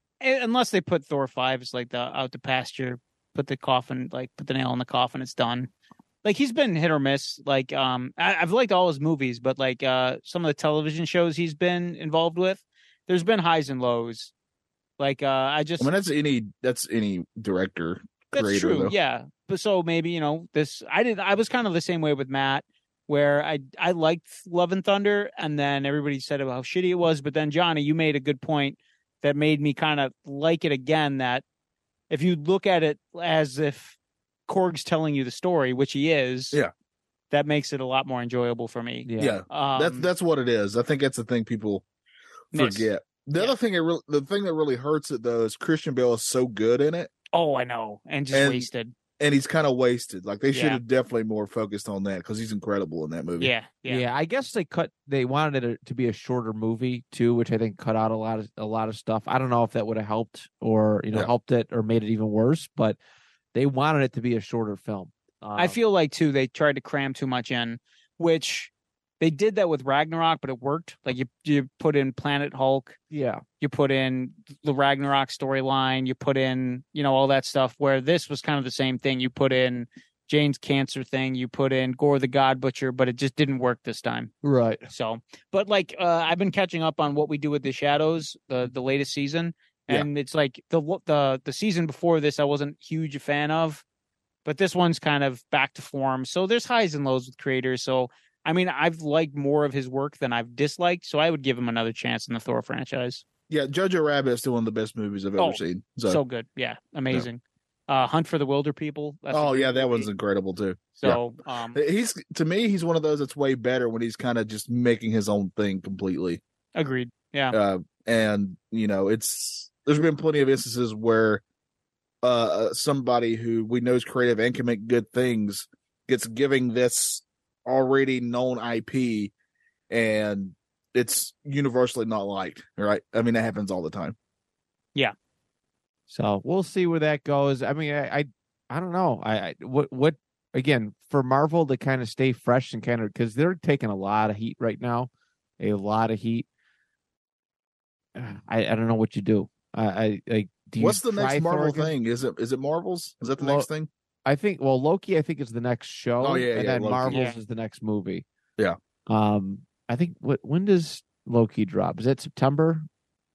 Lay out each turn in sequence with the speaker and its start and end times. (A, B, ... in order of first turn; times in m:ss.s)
0:00.2-0:05.7 A
0:06.2-0:14.3 A
0:15.0-0:15.9 A
0:15.8-0:19.0 B
0:18.3-0:31.4 A
0:32.1-0:34.0 A
0:34.5-0:36.6 A
0:37.3-0:40.1 A
0:39.0-0:39.4 C
0:39.2-0:41.8 B
0:42.5-0:43.6 A
0:42.5-0:47.1 B
0:47.3-0:48.9 A
0:48.3-0:48.7 B
0:49.2-0:53.5 B
0:50.5-0:50.8 A
0:53.4-0:54.0 A
0:53.9-1:03.0 C
1:03.5-1:05.8 C
1:05.6-1:13.0 A
1:13.1-1:13.4 C
1:13.6-1:24.4 A
1:24.4-1:24.8 C
1:24.9-1:33.8 A
1:34.4-1:43.2 A
1:43.5-1:46.2 B
1:45.4-1:50.1 A
1:49.3-1:51.2 B
1:51.0-1:51.8 A
1:51.7-1:56.4 B
1:56.8-1:57.6 A
1:57.5-2:01.4 B
2:02.2-2:09.3 B
2:09.9-2:14.2 B
2:16.1-2:26.5 C
2:28.2-2:31.9 C
2:30.8-2:33.9 B
2:33.4-2:33.7 C
2:34.2-2:38.3 C
2:36.2-2:37.2 B
2:37.1-2:37.4 A
2:39.1-2:42.9 C